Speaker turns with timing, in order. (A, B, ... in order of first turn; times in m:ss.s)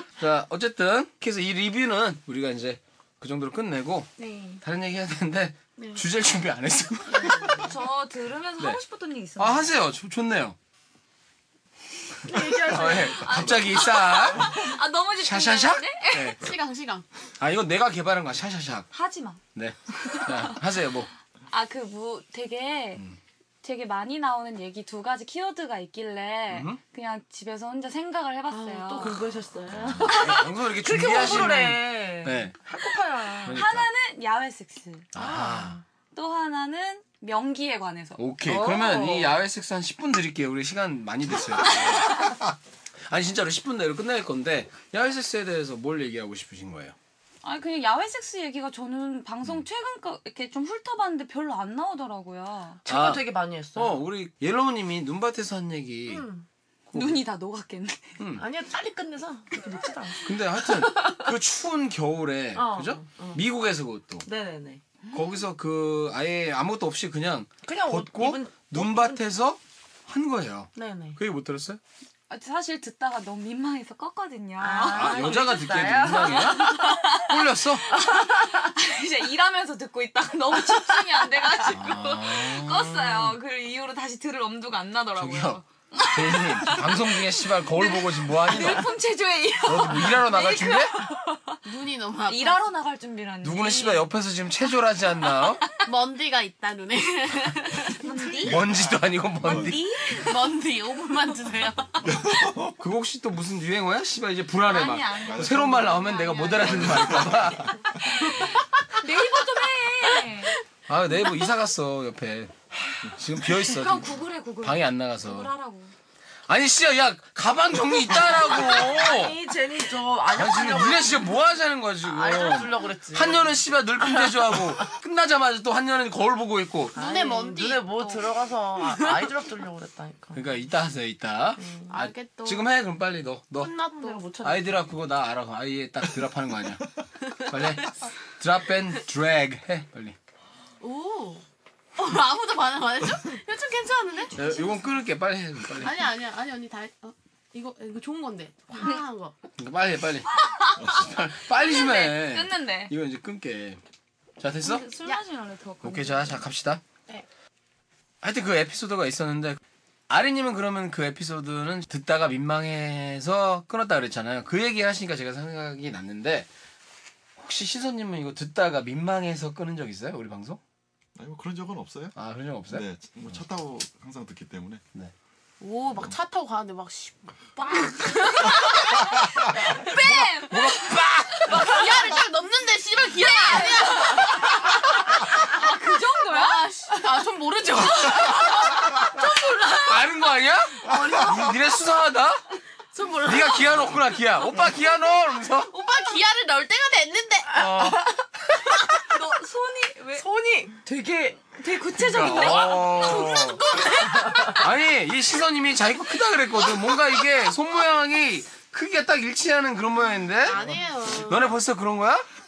0:00.2-0:07.7 A
0:04.2-0:04.6 B
0:05.8-0:06.0 C
0:07.2-0:07.6 C
0:07.6-0:09.7 D
0:09.4-0:10.6 A
0:12.3-0:13.4 C
0:12.3-0:14.6 A
0:12.9-0:16.4 D
0:15.2-0:16.4 A
0:16.4-0:17.0 C
0:17.4-0:18.9 A
0:18.9-0:19.4 D
0:19.6-0:21.1 A
0:19.9-0:20.6 D
0:21.5-0:23.0 D
0:23.6-0:29.2 D
0:26.5-0:26.8 A
0:28.5-0:33.6 B
0:29.7-0:30.1 E
0:29.9-0:32.6 A
0:33.4-0:33.9 A
0:33.5-0:35.1 D
0:35.1-0:35.8 A
0:35.2-0:35.8 B
0:36.1-0:38.2 D
0:38.2-0:42.6 A
0:38.4-0:39.4 B
0:43.1-0:46.9 A
0:47.4-0:52.8 D
0:52.9-0:54.0 B
0:52.9-0:56.3 A
0:56.1-0:56.4 B
0:56.9-0:57.2 A
0:56.9-0:58.2 D
0:58.2-0:58.4 A
0:58.4-1:01.3 B
1:00.2-1:04.2 A
1:02.6-1:03.4 B
1:04.2-1:04.8 B
1:05.1-1:11.8 A
1:07.6-1:09.2 B
1:10.8-1:11.2 B
1:12.3-1:15.3 D
1:14.6-1:17.0 B
1:14.9-1:18.0 A
1:16.1-1:31.6 D
1:17.9-1:18.7 B
1:21.7-1:23.4 A
1:25.2-1:28.9 A
1:29.6-1:31.0 A
1:31.6-1:32.6 C
1:32.3-1:34.1 D
1:33.4-1:35.7 A
1:35.8-1:38.5 C
1:38.0-1:38.6 D
1:38.4-1:39.8 A
1:39.4-1:39.7 E
1:39.4-1:40.3 D
1:40.1-1:42.2 C
1:42.0-1:42.8 E
1:42.8-1:47.8 A
1:44.6-1:47.3 D
1:45.2-1:47.8 E
1:48.0-1:50.6 D
1:50.9-1:52.5 A
1:53.1-1:55.5 A
1:53.5-1:55.9 D
1:56.5-1:59.4 A
1:58.1-2:01.4 B
2:00.3-2:06.9 A
2:02.0-2:04.8 B
2:06.9-2:08.4 C
2:06.9-2:10.4 B
2:08.9-2:09.2 C
2:10.3-2:13.8 A
2:11.6-2:11.9 B
2:11.9-2:12.6 C
2:13.6-2:14.5 C
2:14.0-2:14.7 B
2:14.4-2:16.9 A
2:17.5-2:20.2 A
2:20.8-2:21.4 C
2:22.0-2:24.6 C
2:24.4-2:26.1 A
2:25.8-2:29.4 C
2:29.6-2:30.3 A
2:30.4-2:32.9 D
2:30.8-2:33.8 A
2:34.4-2:34.9 A
2:34.6-2:36.4 D
2:35.8-2:36.8 A
2:38.2-2:46.5 A
2:47.4-2:50.6 A
2:51.2-2:52.1 E
2:52.1-2:52.9 A
2:52.7-2:54.8 E
2:55.6-2:59.1 C
2:58.2-3:01.8 D
3:00.5-3:02.1 A
3:01.4-3:10.0 C
3:03.2-3:06.7 D
3:08.1-3:08.8 D
3:09.9-3:12.4 A
3:10.8-3:11.6 C
3:12.9-3:13.8 C
3:13.2-3:15.7 A
3:15.7-3:17.8 C
3:17.6-3:18.0 A
3:17.6-3:18.0 B
3:19.0-3:20.2 D
3:20.2-3:22.8 B
3:21.6-3:23.5 D
3:22.0-3:23.6 A
3:22.3-3:24.6 C
3:24.2-3:24.6 B
3:24.6-3:32.3 A
3:30.4-3:31.6 C